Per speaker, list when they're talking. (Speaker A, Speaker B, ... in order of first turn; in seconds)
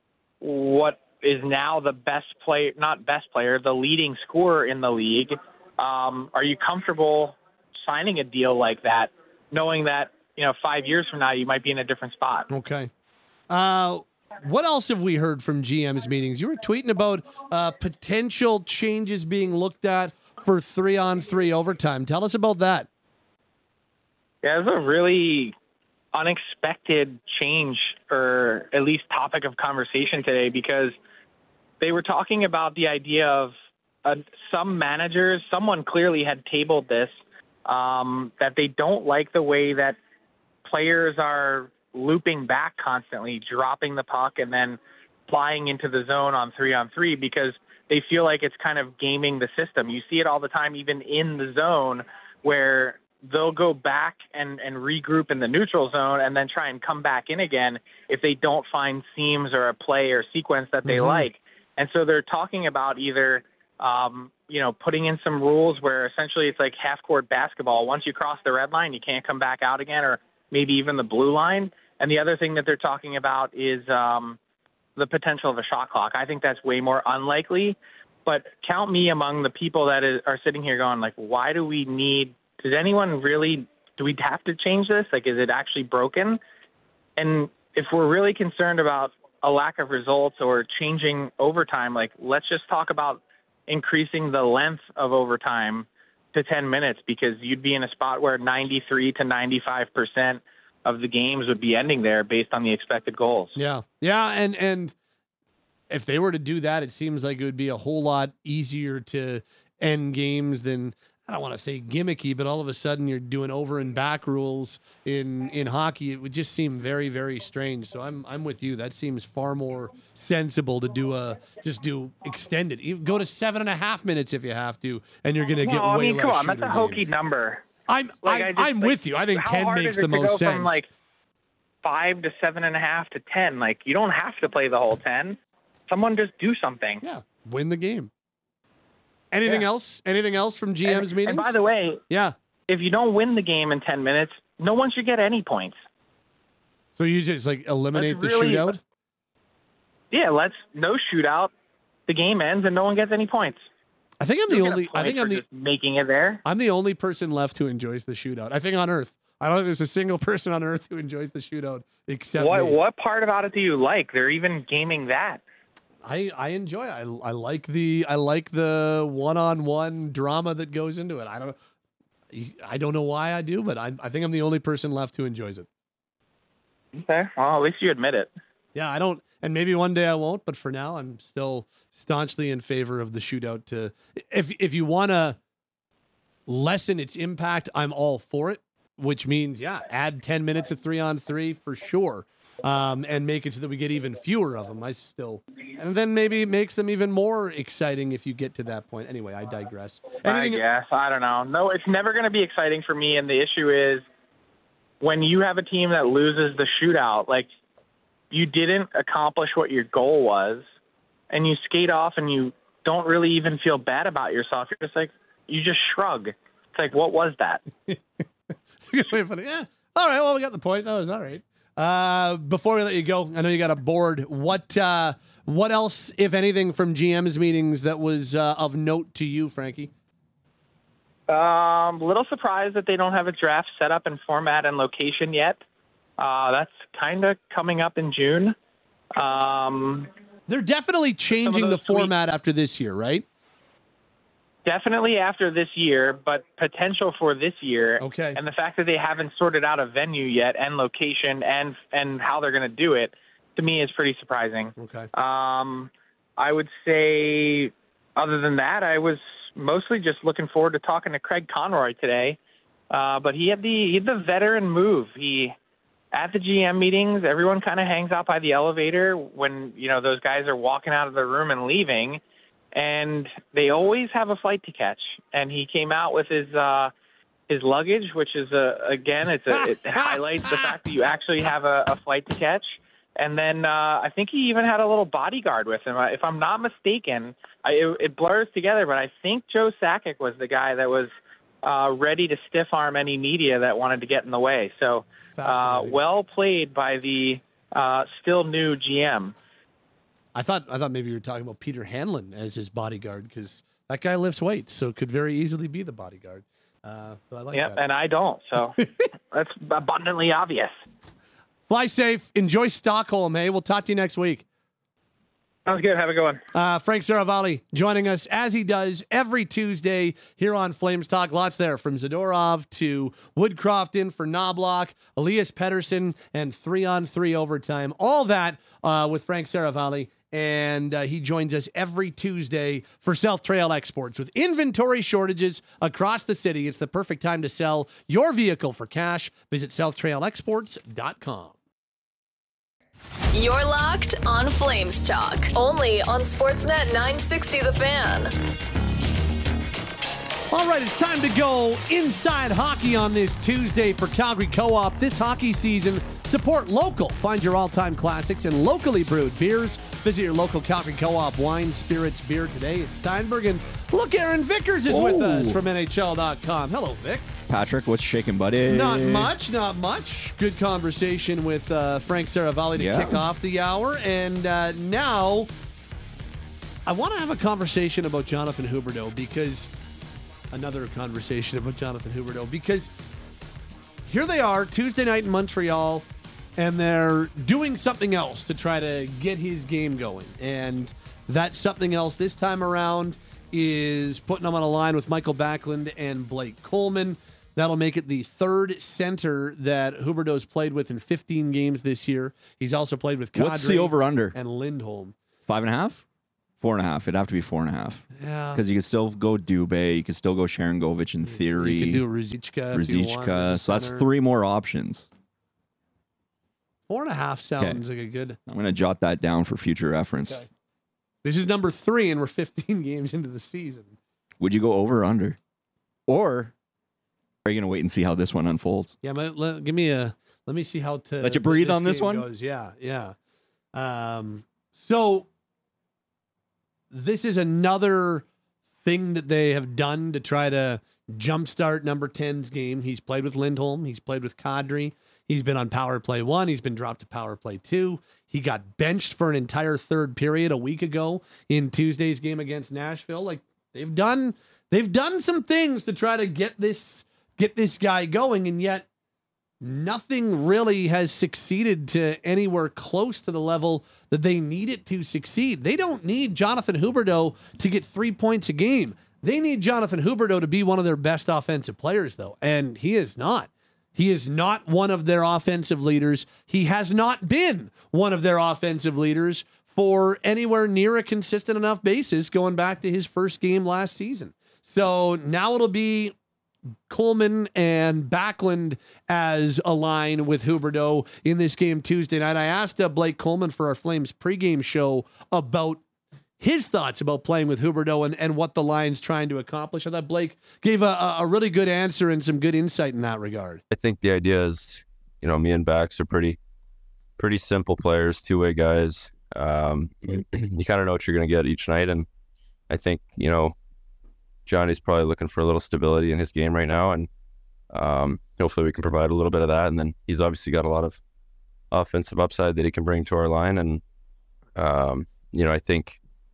Speaker A: 0.4-12.5, 24.4-25.6, 26.1-30.9, 31.8-33.5, 34.0-37.1, 37.7-40.0, 40.7-74.4, 75.0-86.4, 87.2-103.6, 125.6-127.6, 128.2-130.9, 131.8-137.0, 140.8-142.0, 142.7-145.8, 147.9-148.8, 150.1-151.5, 152.1-153.6, 154.5-156.4, 162.4-165.4, 176.9-178.3, 200.2-204.0, 205.0-207.5, 208.3-210.7, 211.3-217.6, 231.3-235.6, 236.2-238.6, 239.2-240.1, 241.4-242.1, 244.7-262.4, 262.9-265.5, 266.1-272.2, 272.7-276.9, 277.5-291.1, 291.6-299.4, 307.5-308.8, 309.3-310.7, 315.7-316.4
Speaker B: 12.5-12.9, 13.5-22.9, 60.9-61.2, 103.6-105.0, 105.9-127.0, 127.9-130.8, 137.0-138.1, 139.3-141.6, 142.1-142.3, 147.0-148.8, 154.2-155.4, 156.4-162.8, 166.0-171.6, 172.3-175.7, 178.8-185.4, 186.5-200.6, 218.8-229.9, 240.5-243.3, 248.0-248.4, 254.8-255.1, 280.0-280.7, 295.4-296.0, 300.3-307.8, 311.7-314.4, 316.5-341.5, 350.5-367.3, 368.7-375.5, 376.9-379.7, 380.5-382.9, 384.1-386.1, 386.6-405.1, 408.2-408.6, 411.4-414.1, 416.9-418.4, 421.2-423.9, 429.0-433.2, 433.7-435.3, 436.9-438.3, 438.8-458.9, 459.6-486.1, 486.9-495.8, 496.4-503.6
Speaker C: 343.4-348.3
Speaker D: 364.9-365.6, 367.5-369.3, 372.8-373.2, 403.4-404.4, 405.5-406.0, 406.6-412.0, 412.7-415.1, 418.5-420.4, 424.4-425.4, 426.1-426.5, 427.4-428.9, 431.2-432.3
Speaker E: 503.7-506.4, 507.2-512.1, 512.7-513.5, 514.5-517.1, 517.7-521.0, 521.7-523.8, 524.5-526.0